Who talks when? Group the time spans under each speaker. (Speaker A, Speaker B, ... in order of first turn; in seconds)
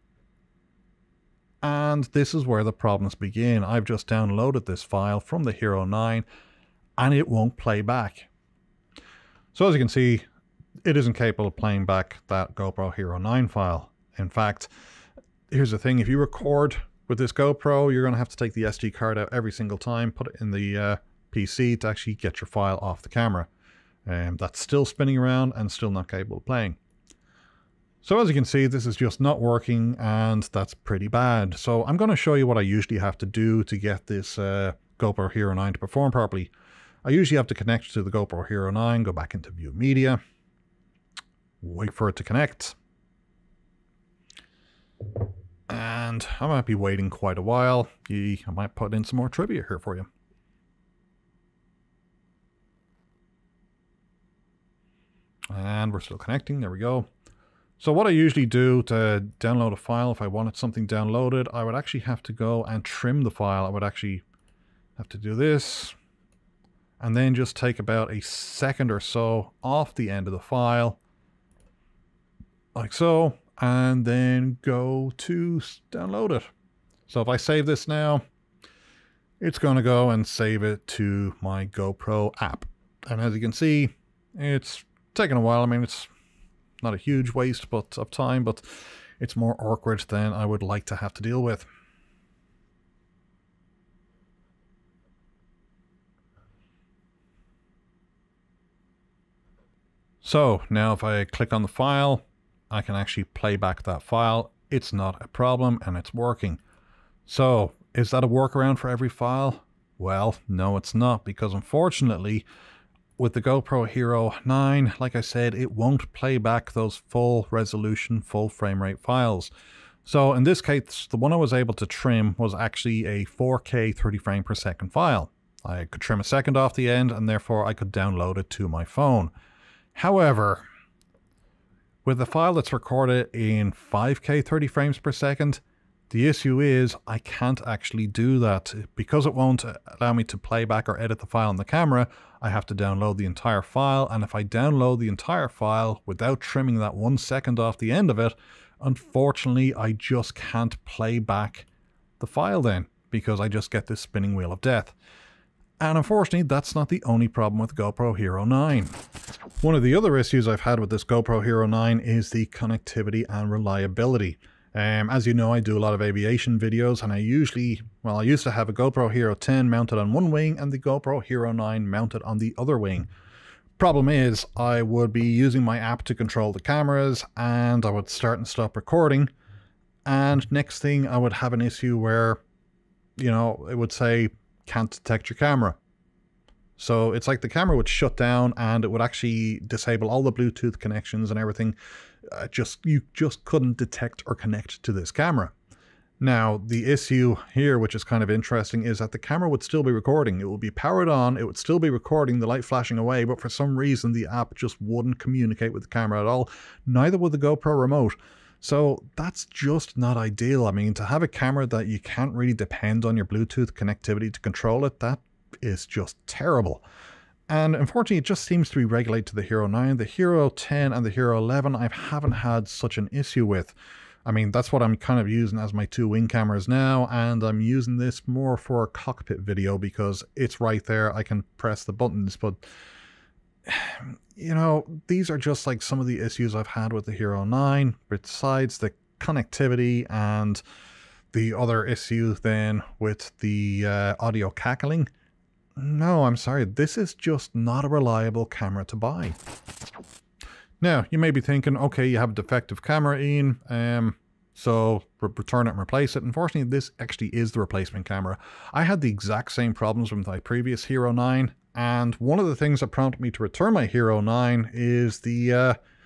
Speaker A: 1.6-6.2, 7.0-8.3, 9.5-10.2, 10.8-14.7, 15.5-23.5, 24.1-26.8, 28.0-36.5, 37.0-40.2, 41.6-42.8, 45.7-50.1, 55.5-57.1, 57.8-64.2, 65.0-66.0, 67.0-71.0, 72.8-76.5, 77.1-78.2, 79.4-86.1, 86.8-91.7, 100.2-106.6, 107.3-112.5, 113.2-119.5, 120.0-129.3, 129.9-130.7, 132.1-151.7, 152.2-154.9, 155.8-159.0, 159.6-173.1, 173.8-179.3, 180.1-182.4, 183.2-185.8, 186.8-191.8, 192.3-195.5, 196.2-216.8, 217.5-223.7, 224.2-232.6, 233.7-240.6, 241.3-245.1, 245.8-249.4, 250.8-265.8